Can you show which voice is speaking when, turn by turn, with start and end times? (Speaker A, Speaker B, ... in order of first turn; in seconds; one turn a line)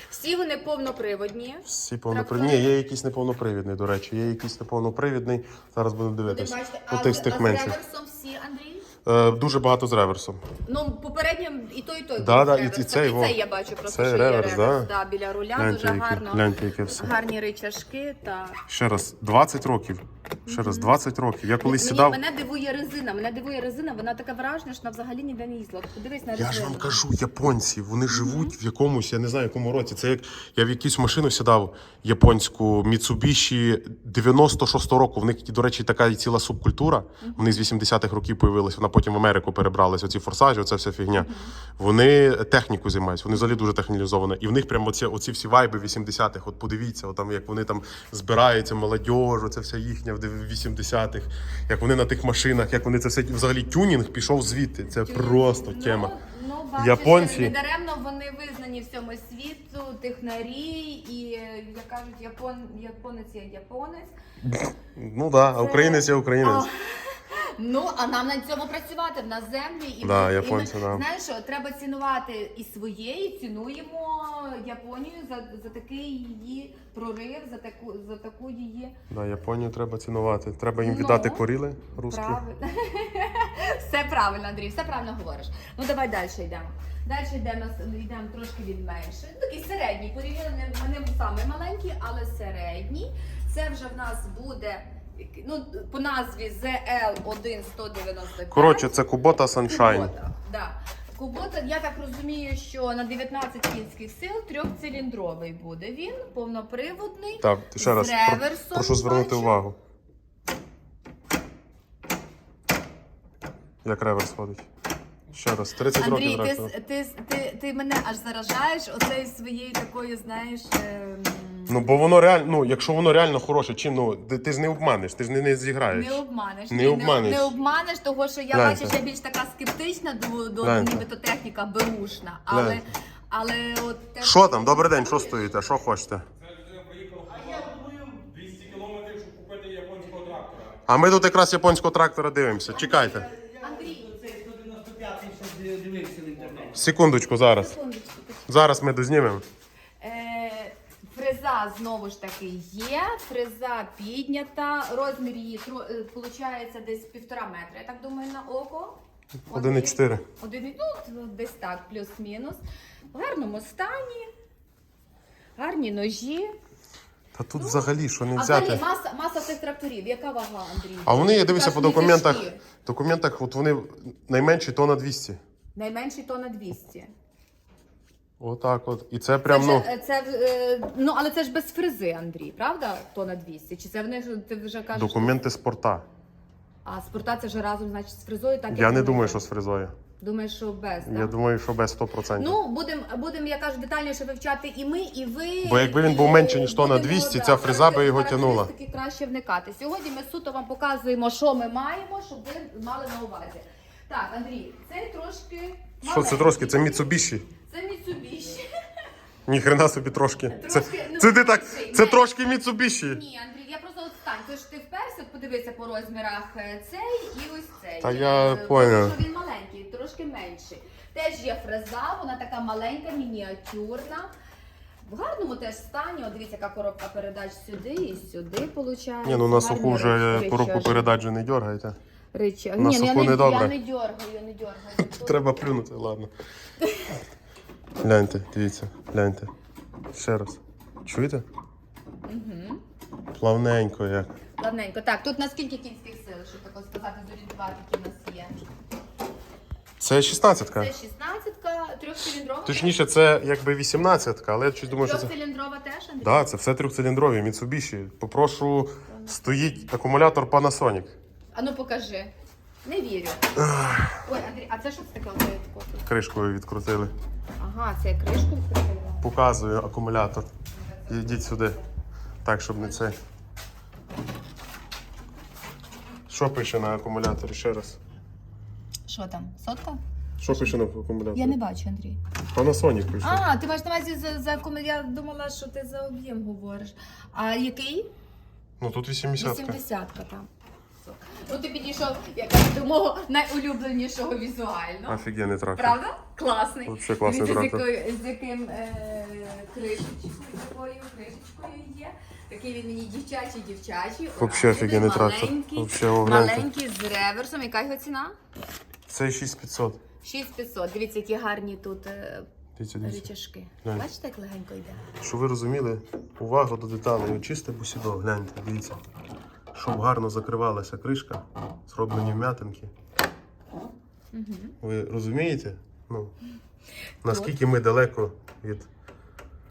Speaker A: 0.1-2.7
Speaker B: 1.6-7.8
Speaker A: 6.2-8.9
Speaker B: 9.1-10.4
Speaker A: 10.7-18.6
Speaker B: 12.2-14.9
Speaker B: 15.6-17.1
Speaker B: 18.7-22.2
Speaker A: 20.5-21.0
Speaker A: 21.6-27.0
Speaker B: 26.4-56.1
Speaker A: 28.1-28.6
Speaker A: 37.2-37.6
Speaker A: 41.2-41.5
Speaker A: 54.9-64.1
Speaker B: 56.8-57.5
Speaker B: 64.4-66.7
Speaker A: 65.5-79.0
Speaker B: 70.0-71.0
Speaker B: 79.1-82.4
Speaker A: 80.8-81.4
Speaker A: 82.1-99.0
Speaker B: 98.5-100.1
Speaker A: 99.7-109.6
Speaker B: 107.4-109.8
Speaker B: 113.8-114.7
Speaker B: 115.3-116.7
Speaker A: 116.0-121.8
Speaker B: 121.7-127.5
Speaker A: 125.9-135.6
Speaker B: 128.5-129.0
Speaker B: 130.6-131.0
Speaker B: 132.5-132.8
Speaker B: 134.2-136.2
Speaker C: 136.5-140.8
Speaker B: 140.8-143.3
Speaker A: 142.9-144.2
Speaker C: 144.2-146.7
Speaker B: 146.7-147.7
Speaker A: 147.5-148.5
Speaker B: 148.5-149.4
Speaker A: 150.0-162.6
Speaker B: 159.5-160.2
Speaker A: 163.1-164.3
Speaker A: 165.6-166.5
Speaker B: 167.3-168.8
Speaker A: 167.6-172.6
Speaker B: 171.1-175.4
Speaker A: 175.8-177.1
Speaker B: 178.4-179.9
Speaker A: 179.4-185.4
Speaker B: 184.9-186.1
Speaker A: 186.8-189.4
Speaker B: 188.7-189.9
Speaker A: 190.2-191.3
Speaker B: 191.0-192.6
Speaker A: 192.4-208.7
Speaker B: 195.6-198.7
Speaker B: 206.0-207.5
Speaker B: 209.5-213.2
Speaker A: 210.5-212.4
Speaker A: 213.0-224.3
Speaker B: 218.0-219.2
Speaker A: 225.0-231.1
Speaker B: 229.2-232.0
Speaker A: 232.3-235.5
Speaker B: 232.8-233.7
Speaker B: 235.0-236.3
Speaker A: 236.8-237.1
Speaker B: 238.0-239.5
Speaker B: 240.1-241.4
Speaker A: 242.2-242.8
Speaker B: 243.4-244.3
Speaker A: 244.6-248.6
Speaker B: 250.0-250.9
Speaker A: 250.7-253.0
Speaker B: 252.7-255.3
Speaker A: 254.9-256.5
Speaker B: 256.2-261.2
Speaker A: 259.1-259.9
Speaker A: 261.6-262.3
Speaker A: 262.8-263.5
Speaker B: 263.6-264.2
Speaker A: 264.2-266.1
Speaker B: 266.1-267.1
Speaker A: 267.6-269.2
Speaker B: 269.2-270.5
Speaker A: 270.7-271.8
Speaker B: 271.1-271.8
Speaker B: 272.4-273.2
Speaker B: 276.3-278.0
Speaker A: 279.1-280.8
Speaker B: 280.4-281.6
Speaker A: 281.3-282.2
Speaker B: 282.5-283.5
Speaker A: 283.2-288.1
Speaker B: 288.8-289.8
Speaker A: 289.4-290.5
Speaker A: 291.0-295.2
Speaker B: 295.1-296.0
Speaker A: 295.8-308.4
Speaker B: 296.9-297.9
Speaker B: 304.4-306.7
Speaker B: 309.1-310.0
Speaker A: 310.2-312.5
Speaker B: 312.8-313.3
Speaker A: 313.0-315.1
Speaker B: 315.2-319.0
Speaker B: 319.7-322.9
Speaker A: 324.3-324.8
Speaker B: 324.8-326.3
Speaker B: 327.2-328.9
Speaker A: 327.3-327.5